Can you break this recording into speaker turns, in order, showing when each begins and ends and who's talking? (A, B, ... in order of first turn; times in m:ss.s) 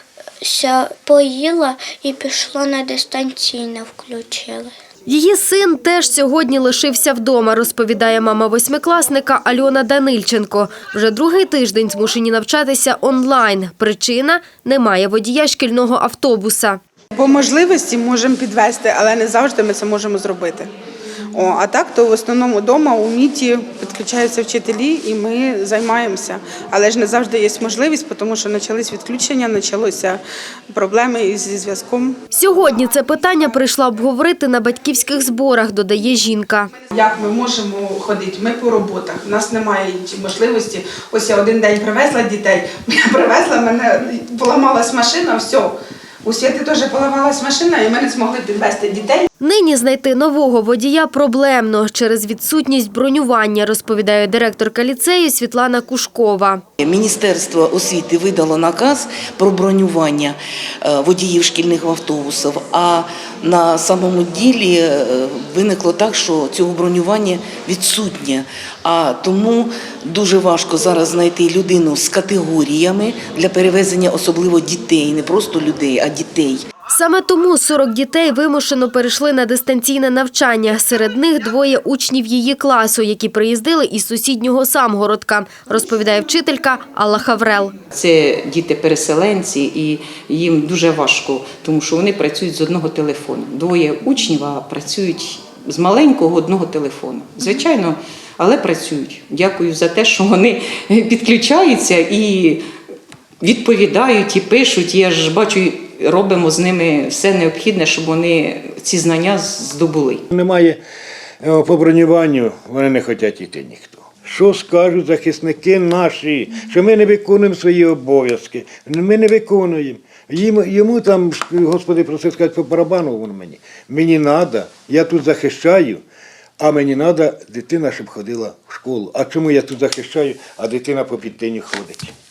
0:00.4-0:04.7 A
0:05.1-0:16.8 B
0:17.2-0:20.7 C
0:21.3-0:30.2 C
0:30.7-0:32.2 C
0:32.3-0:36.7 B
0:36.9-0:49.3 C
0:49.4-0:56.6 B
0:56.8-1:16.6 D
1:16.9-1:27.7 B
1:27.9-1:42.7 E
1:43.4-1:50.2 E
1:50.3-1:50.8 F
1:51.4-2:06.0 F
2:06.6-2:12.1 F